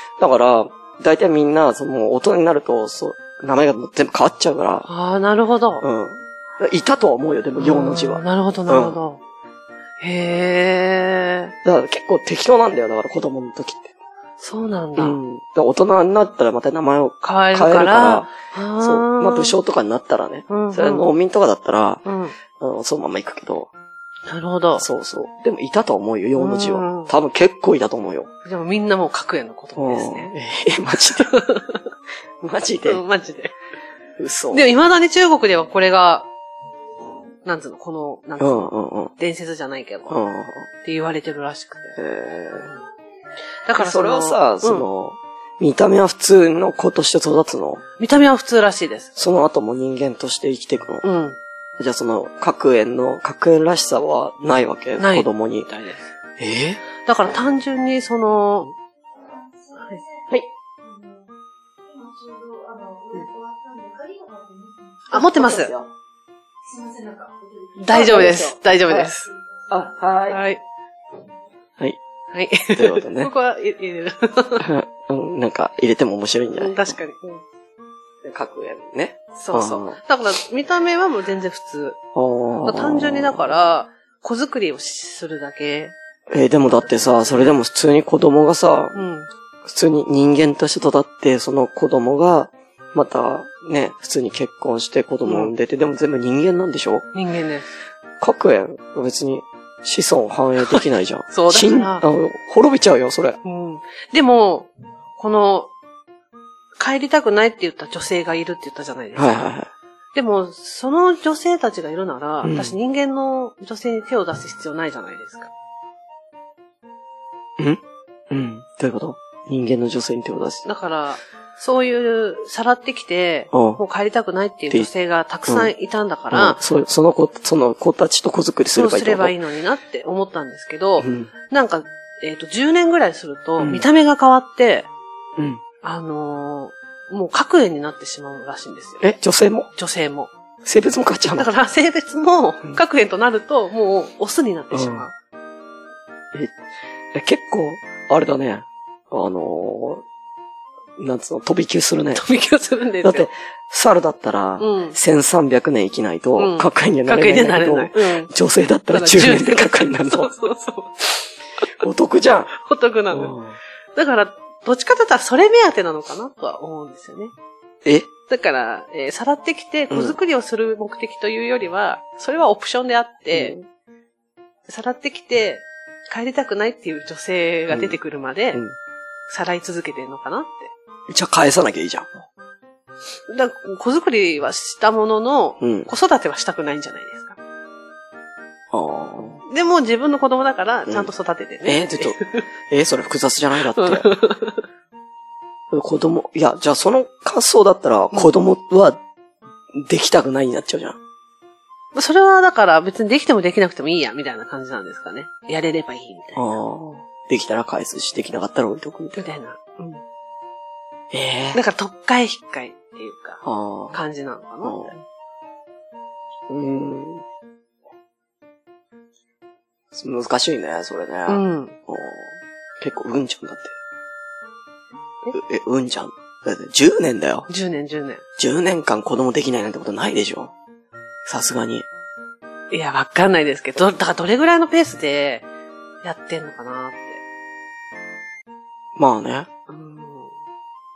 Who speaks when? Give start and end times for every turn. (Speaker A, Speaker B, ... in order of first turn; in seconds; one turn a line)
Speaker A: 0.2-4.9
Speaker B: 4.9-5.8
Speaker A: 5.8-9.0
Speaker B: 7.6-9.2
Speaker B: 10.0-11.5
Speaker A: 11.6-13.9
Speaker B: 14.4-15.2
Speaker A: 15.0-23.7
Speaker B: 17.2-19.5
Speaker B: 20.5-21.1
Speaker B: 22.0-22.3
Speaker B: 24.3-24.9
Speaker A: 24.8-28.3
Speaker B: 26.4-27.1
Speaker B: 28.4-30.3
Speaker A: 29.8-31.3
Speaker B: 31.1-31.8
Speaker A: 32.4-33.0
Speaker B: 32.8-33.5
Speaker A: 34.2-34.7
Speaker B: 34.5-36.3
Speaker B: 37.4-40.2
Speaker A: 38.4-39.1
Speaker A: 40.1-40.7
Speaker B: 40.8-42.0
Speaker A: 42.0-42.7
Speaker B: 43.6-44.9
Speaker A: 43.8-47.8
Speaker B: 48.0-49.1
Speaker A: 49.1-51.0
Speaker B: 51.0-51.4
Speaker A: 51.8-55.7
Speaker B: 55.0-56.0
Speaker A: 56.4-56.8
Speaker B: 57.0-58.7
Speaker B: 59.7-60.0
Speaker B: 65.1-65.7
Speaker A: 65.1-65.9
Speaker B: 67.7-69.3
Speaker A: 67.9-69.1
Speaker A: 69.7-70.4
Speaker B: 70.3-70.6
Speaker B: 72.3-74.7
Speaker A: 72.7-73.3
Speaker A: 74.6-77.0
Speaker B: 76.5-77.4
Speaker A: 78.2-80.0
Speaker B: 79.3-82.0
Speaker A: 82.1-83.6
Speaker B: 82.6-85.9
Speaker A: 86.3-89.0
Speaker B: 87.2-87.5
Speaker B: 88.9-89.3
Speaker A: 89.6-97.1
Speaker B: 95.2-95.5
Speaker B: 97.1-97.7
Speaker A: 98.2-103.4
Speaker B: 100.6-102.0
Speaker B: 103.4-105.7
Speaker B: 106.8-109.4
Speaker A: 109.1-109.7
Speaker B: 110.1-115.5
Speaker A: 112.4-112.8
Speaker A: 117.6-120.7
Speaker B: 120.6-126.6
Speaker A: 123.5-123.8
Speaker A: 126.3-129.3
Speaker B: 128.7-134.9
Speaker A: 131.0-131.3
Speaker A: 133.6-133.9
Speaker A: 135.4-135.6
Speaker B: 135.8-139.0
Speaker A: 139.0-139.7
Speaker B: 139.8-140.3
Speaker A: 140.6-141.5
Speaker B: 141.3-145.1
Speaker A: 144.7-145.1
Speaker A: 147.1-150.0
Speaker A: 151.0-152.2
Speaker B: 152.1-153.3
Speaker A: 153.0-160.4
Speaker B: 154.6-155.0
Speaker B: 156.4-158.3
Speaker B: 158.9-161.7
Speaker A: 161.8-162.5
Speaker B: 162.5-163.4
Speaker A: 163.1-163.6
Speaker B: 163.9-167.3
Speaker A: 167.8-168.1
Speaker B: 168.3-173.5
Speaker A: 169.9-170.2
Speaker A: 173.3-173.6
Speaker B: 174.7-178.6
Speaker A: 177.7-178.0
Speaker B: 179.3-180.7
Speaker A: 181.1-182.2
Speaker B: 183.3-187.4
Speaker A: 185.6-185.9
Speaker A: 188.7-189.4
Speaker B: 189.4-192.4
Speaker A: 191.6-192.2
Speaker A: 192.7-194.1
Speaker B: 193.7-194.6
Speaker A: 195.7-199.0
Speaker A: 199.7-201.0
Speaker B: 201.9-206.5
Speaker A: 206.3-209.3
Speaker B: 209.2-210.0
Speaker A: 211.1-211.6
Speaker B: 211.5-215.0
Speaker A: 213.4-214.0
Speaker A: 214.6-214.9
Speaker A: 216.5-217.2
Speaker A: 219.9-223.7
Speaker B: 221.3-221.8
Speaker A: 225.3-227.5
Speaker B: 227.5-228.2
Speaker A: 228.4-230.5
Speaker A: 231.2-231.8
Speaker B: 232.7-235.5
Speaker B: 236.0-237.2
Speaker A: 238.9-239.5
Speaker B: 239.7-240.3